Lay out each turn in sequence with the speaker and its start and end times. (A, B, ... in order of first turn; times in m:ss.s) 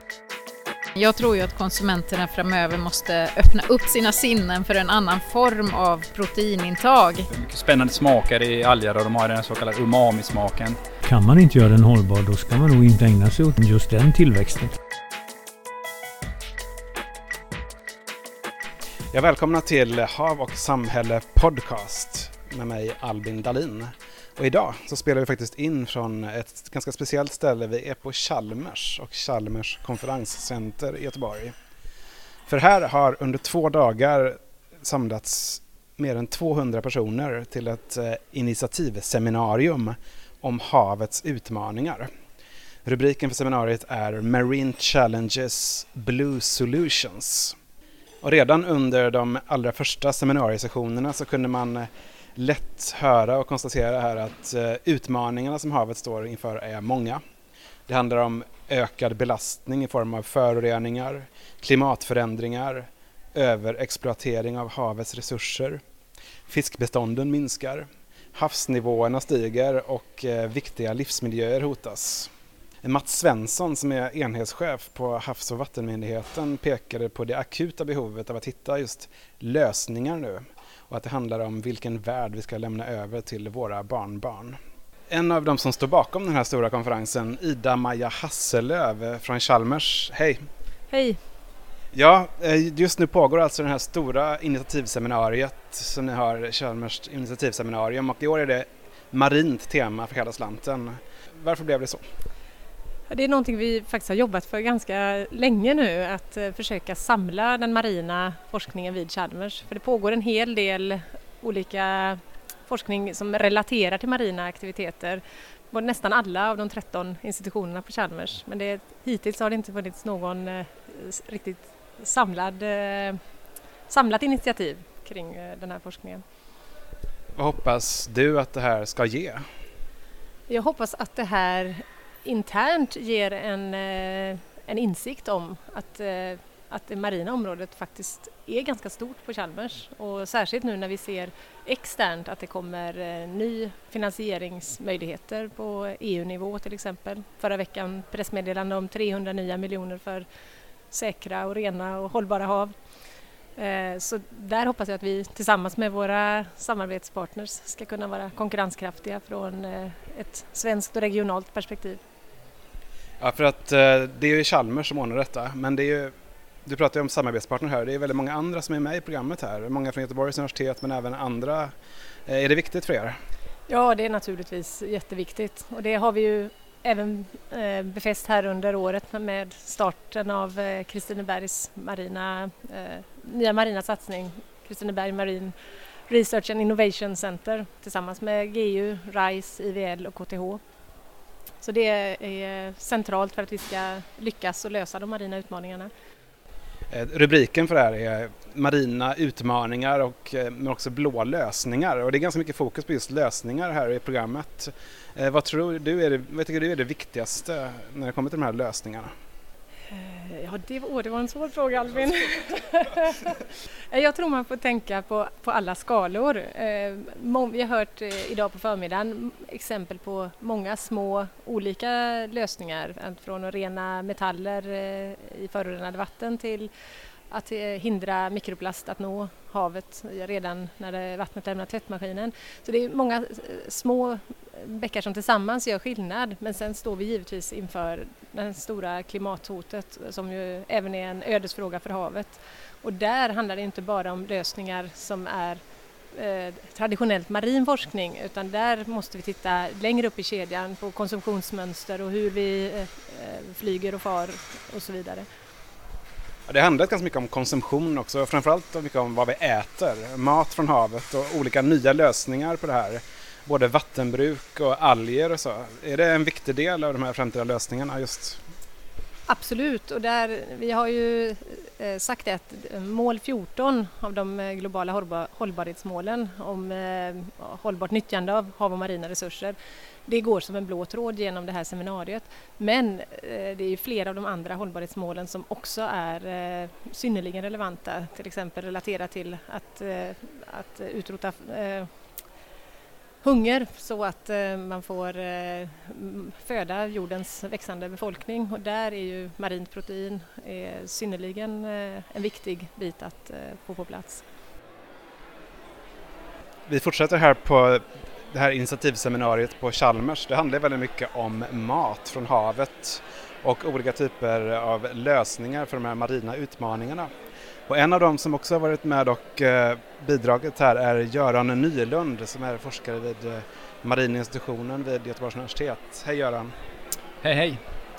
0:01.0-0:07.3 A
0:07.3-0:10.8 B
0:11.0-0:14.7 C
0:19.1-0:31.5 D
0:32.5-0:42.1 D
0:42.8-0:47.6 D
0:48.2-0:57.2 D
0:57.9-1:05.8 D
1:06.5-1:12.3 D
1:12.8-1:30.4 D
1:30.9-1:31.2 E
1:31.9-1:42.0 D
1:43.1-2:03.2 E
2:03.9-2:06.2 E
2:07.4-2:09.4 D
2:10.5-2:30.2 E
2:30.9-2:32.7 E
2:33.6-2:42.0 E
2:43.2-2:46.1 D
2:46.6-2:51.7 D
2:52.3-2:53.2 D
2:53.7-3:05.5 E
3:06.1-3:10.6 E
3:11.6-3:15.9 E
3:16.9-3:29.1 D
3:29.9-3:33.4 E
3:33.9-3:46.7 E
3:47.3-4:05.6 E
4:06.1-4:15.3 E
4:16.5-4:28.4 D
4:29.3-4:51.9 E
4:53.2-5:04.2 E
5:06.7-5:17.1 D
5:17.7-5:26.5 D
5:27.2-5:27.6 B